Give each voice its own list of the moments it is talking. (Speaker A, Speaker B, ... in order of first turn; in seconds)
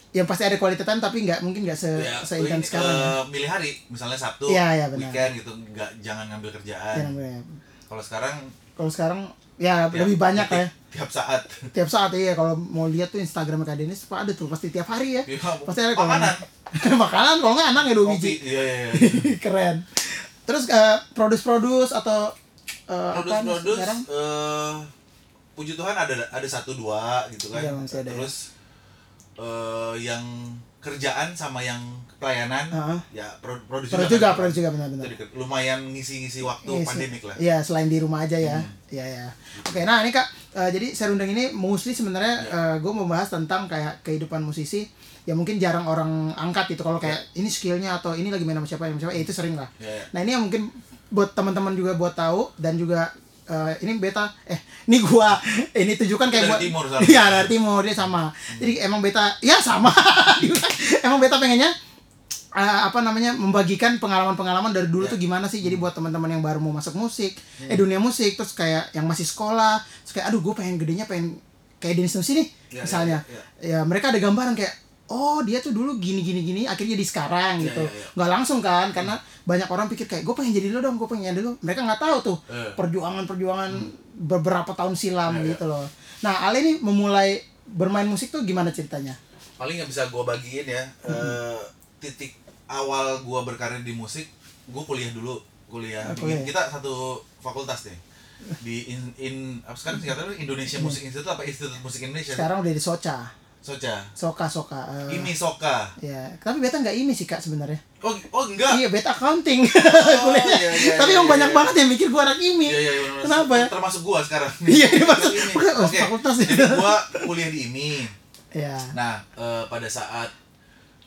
Speaker A: 0.1-3.1, 4.5-5.2, 6.9-7.6, 8.8-10.7, 11.7-22.3, 22.9-24.1, 27.5-28.3, 32.7-33.0, 33.9-35.1, 36.6-61.7, 62.5-89.2, 91.1-91.4, 96.0-96.5, 100.7-101.0, 102.3-103.3, 104.2-105.3, 106.0-107.8, 108.7-113.7, 114.7-117.2, 118.5-118.9
Speaker B: 2.0-7.1, 7.9-8.5, 9.9-11.7, 15.3-16.4, 18.0-19.3, 23.1-24.9, 25.6-28.5, 29.4-37.4, 38.4-38.7, 39.6-39.9, 49.2-50.1, 56.3-57.5, 58.5-58.8, 65.0-65.9, 67.6-67.8, 72.7-73.4, 77.6-78.1, 82.5-82.8, 85.3-85.6, 89.6-98.0, 98.6-102.5, 103.6-104.1, 105.1-105.9, 108.0-108.8, 109.7-111.7, 112.7-118.2, 118.9-120.3